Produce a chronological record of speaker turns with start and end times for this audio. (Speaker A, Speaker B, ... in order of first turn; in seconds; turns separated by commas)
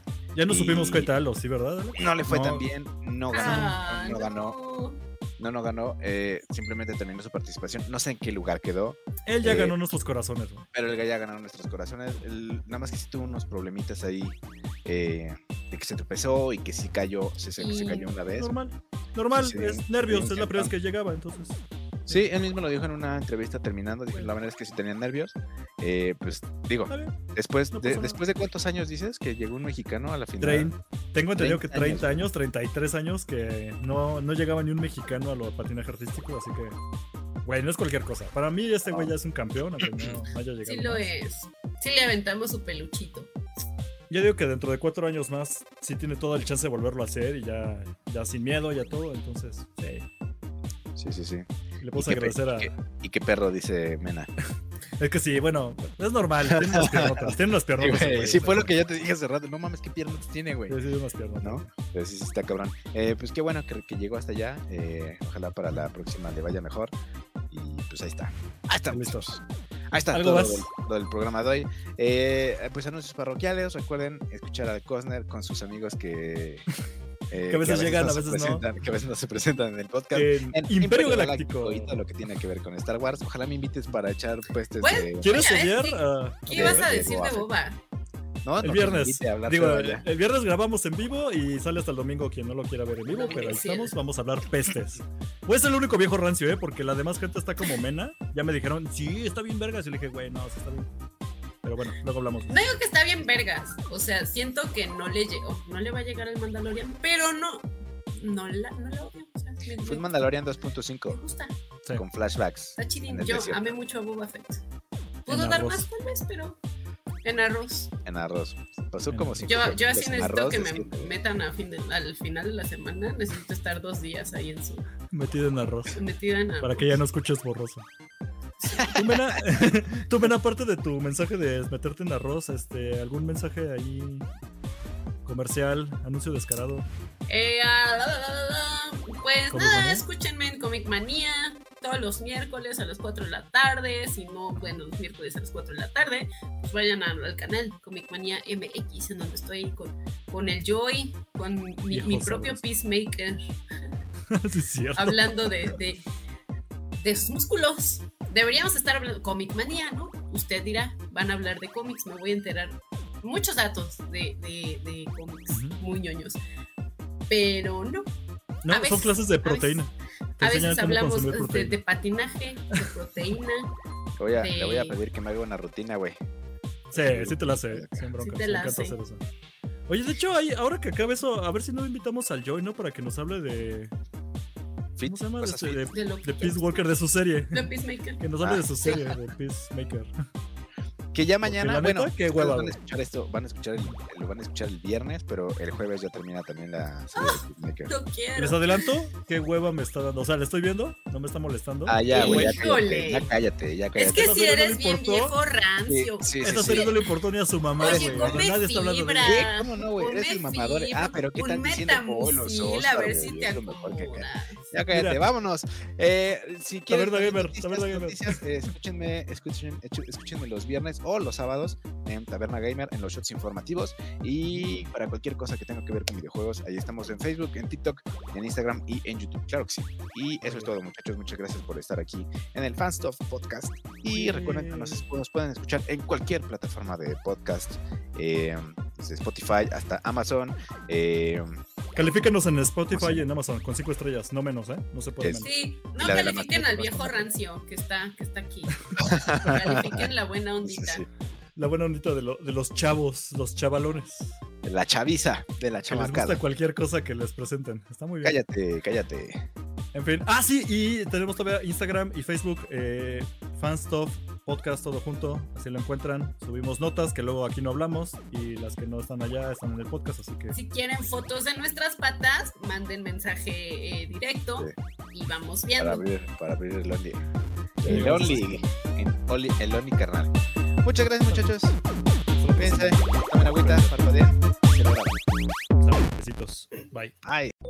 Speaker A: 0.3-2.6, Speaker B: 0.5-1.1, Speaker B: 2.0-4.6, Speaker C: 3.3-5.0, Speaker A: 3.4-3.8, Speaker B: 5.4-9.8, Speaker A: 9.3-10.7, Speaker B: 10.7-18.5, Speaker C: 17.6-18.2, Speaker A: 18.4-22.3, Speaker B: 19.4-20.7, Speaker B: 22.1-30.7, Speaker A: 26.9-27.2, Speaker A: 27.7-28.2, Speaker A: 30.4-36.8, Speaker B: 31.4-32.3, Speaker A: 37.5-41.1, Speaker B: 39.8-40.2, Speaker C: 40.6-43.3, Speaker A: 44.1-50.1, Speaker B: 51.0-54.3, Speaker A: 51.8-52.7, Speaker A: 55.0-58.7, Speaker B: 56.4-60.8, Speaker A: 60.7-61.7, Speaker B: 61.4-66.9, Speaker B: 67.5-76.7, Speaker A: 68.9-69.3, Speaker A: 70.1-70.7, Speaker B: 77.3-85.3, Speaker A: 77.5-78.7, Speaker A: 80.1-82.0, Speaker C: 84.8-87.8, Speaker A: 85.2-87.0, Speaker B: 86.5-87.5, Speaker B: 88.4-90.0, Speaker A: 88.6-101.0, Speaker C: 93.1-93.9, Speaker A: 101.6-102.7, Speaker C: 102.5-110.1, Speaker B: 109.8-111.2, Speaker C: 111.1-111.5, Speaker B: 111.9-113.8, Speaker C: 112.8-114.6, Speaker A: 115.3-115.9, Speaker C: 115.3-116.6, Speaker C: 117.2-117.9, Speaker B: 118.0-121.1, Speaker A: 119.1-119.6, Speaker C: 119.5-124.8, Speaker A: 125.1-126.0, Speaker C: 125.9-127.0, Speaker A: 126.6-127.8, Speaker C: 128.6-129.0, Speaker B: 128.7-129.7, Speaker A: 128.9-134.3, Speaker A: 135.2-136.9, Speaker C: 137.3-153.6, Speaker A: 139.5-140.1, Speaker A: 151.9-152.6, Speaker A: 154.3-155.8, Speaker C: 155.0-156.0, Speaker C: 157.0-166.4, Speaker A: 165.5-165.8, Speaker C: 167.3-168.1, Speaker A: 168.6-171.8, Speaker C: 168.7-169.8, Speaker C: 170.4-173.7, Speaker B: 174.2-176.2, Speaker C: 174.3-175.0, Speaker A: 176.9-179.2, Speaker B: 176.9-178.1, Speaker C: 178.2-179.0, Speaker A: 179.9-183.9, Speaker B: 185.0-185.9, Speaker A: 185.1-190.1, Speaker C: 185.9-186.9, Speaker C: 187.5-188.2, Speaker B: 188.4-189.1, Speaker C: 188.8-189.1, Speaker B: 191.1-197.9, Speaker A: 191.4-192.8, Speaker C: 197.1-198.8, Speaker A: 198.4-202.7, Speaker B: 201.9-204.4, Speaker C: 202.1-203.3, Speaker C: 204.0-207.0, Speaker A: 204.1-205.3, Speaker B: 205.9-207.0, Speaker A: 206.4-209.5, Speaker C: 207.8-214.7, Speaker B: 207.8-208.5, Speaker B: 209.2-241.6, Speaker A: 214.9-215.2, Speaker A: 216.9-218.4, Speaker A: 224.4-224.7, Speaker A: 230.4-230.7, Speaker A: 234.1-235.1, Speaker A: 241.9-245.5, Speaker B: 242.9-243.3, Speaker B: 245.2-245.4, Speaker C: 245.4-251.1, Speaker B: 246.0-247.3, Speaker B: 249.0-250.1, Speaker B: 250.6-251.1, Speaker A: 251.6-254.4, Speaker B: 254.6-256.4, Speaker A: 255.9-258.4, Speaker B: 258.2-259.4, Speaker A: 259.9-270.6, Speaker C: 270.5-276.0, Speaker B: 275.8-277.2, Speaker A: 277.8-278.6, Speaker B: 277.8-281.8, Speaker A: 282.4-284.1, Speaker B: 282.6-285.2, Speaker A: 285.8-287.1, Speaker B: 287.2-287.5